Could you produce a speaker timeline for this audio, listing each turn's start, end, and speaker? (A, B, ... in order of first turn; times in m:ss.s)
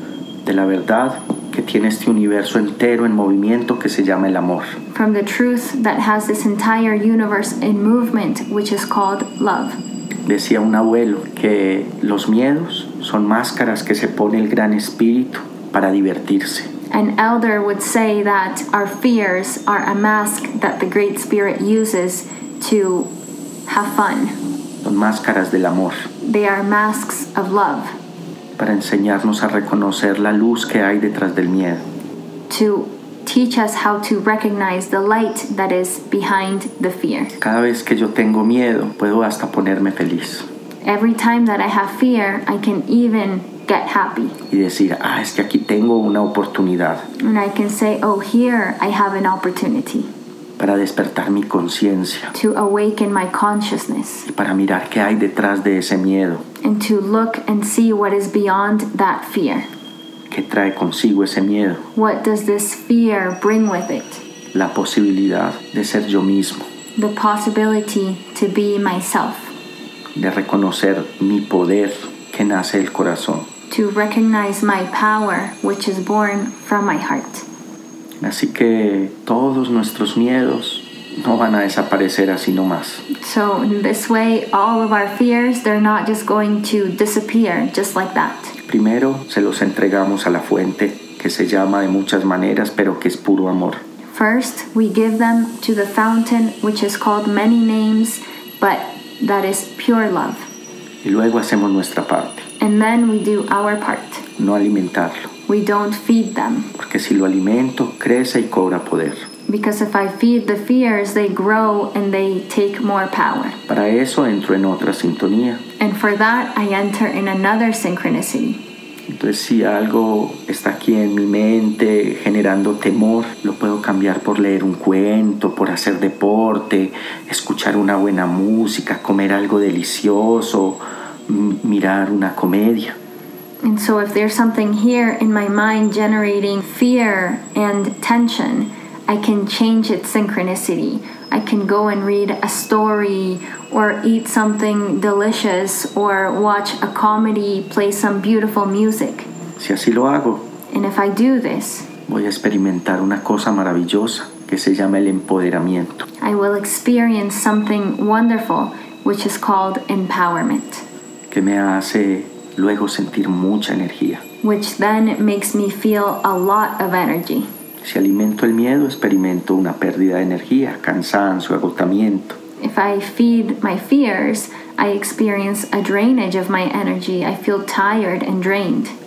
0:00.4-0:04.8 A
0:04.9-0:09.8 B
0:10.2-0:16.7 A
0:16.9-0:23.1 B
0:23.7-0:24.4 B
0:24.8-0:26.0 A
0:26.2-0:27.9 B
0:28.6-0:31.8 A
0:32.5-0:37.3 B
0:37.4-0:40.5 A
0:40.8-0:44.4 B
0:44.5-0:47.1 A
0:47.2-0:50.1 B
0:50.6-0:52.3 A
0:52.3-0:54.3 B
0:54.2-0:56.4 A
0:56.6-0:59.7 B
1:00.3-1:01.8 A
1:01.9-1:04.2 B
1:04.5-1:06.6 A
1:07.0-1:09.5 B
1:10.1-1:13.5 A
1:13.7-1:17.4 B
1:18.2-1:23.0 A
1:23.1-1:28.5 B
1:28.7-1:33.8 A
1:34.1-1:40.5 B
1:41.0-1:42.4 A
1:42.6-1:44.2 B
1:44.4-1:45.3 A
1:45.5-1:46.7 B
1:46.8-1:49.2 A
1:49.5-1:53.6 B
1:53.7-1:55.6 A
1:55.8-1:58.6 B
1:59.1-2:13.0 A
2:13.6-2:29.3 B
2:29.6-2:30.5 A
2:30.7-2:31.9 B
2:32.1-2:36.0 A
2:36.2-2:40.8 B
2:41.3-2:44.2 A
2:44.4-2:47.5 B
2:47.8-2:52.4 A
2:52.6-2:58.9 B